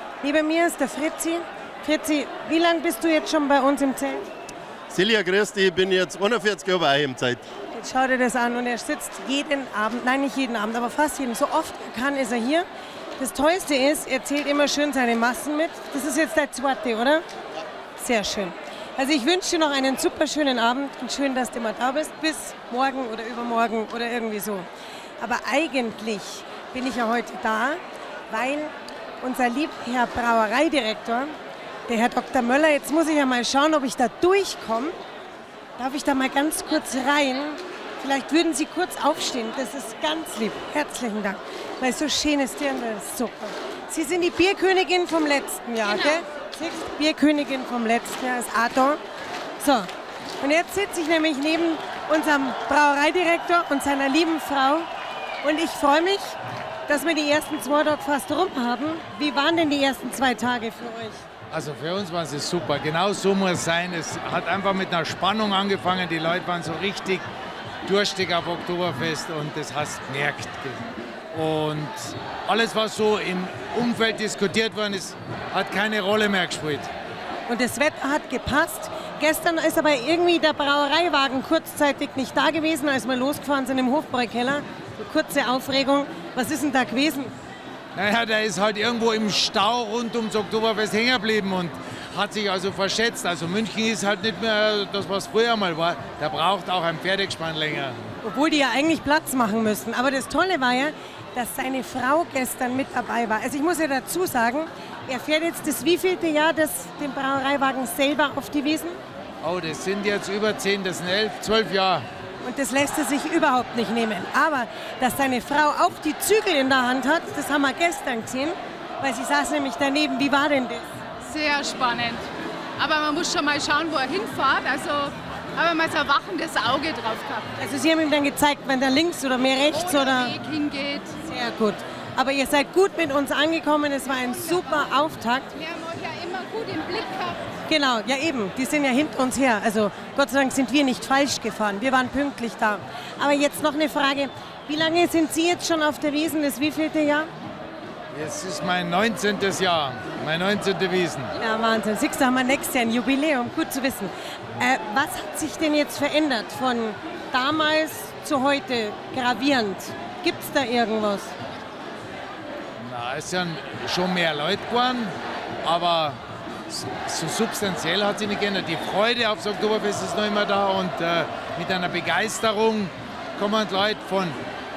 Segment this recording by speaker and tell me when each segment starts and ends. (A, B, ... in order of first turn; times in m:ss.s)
0:00.2-0:04.3 A
0:04.9-0:07.4 B
0:07.7-0:12.6 A
0:13.2-0:17.2 A
0:18.0-0:24.7 A
0:25.2-0:31.4 A
0:31.9-0:35.0 A
0:35.8-0:49.0 A
0:49.6-0:49.9 A
0:50.4-0:54.9 A
0:55.4-0:56.4 A
0:56.9-1:01.2 A
1:01.5-1:07.2 C
1:07.8-1:16.9 C
1:17.5-1:27.3 A
1:27.9-1:38.0 C
1:38.2-1:49.0 A
1:49.4-1:52.0 C
1:52.4-2:00.9 A
2:01.2-2:07.5 D
2:07.6-2:10.4 A
2:09.7-2:11.1 D
2:11.2-2:15.5 A
2:15.5-2:17.5 D
2:17.7-2:27.3 A
2:28.1-2:31.3 C
2:31.4-2:41.3 A
2:42.8-2:54.4 C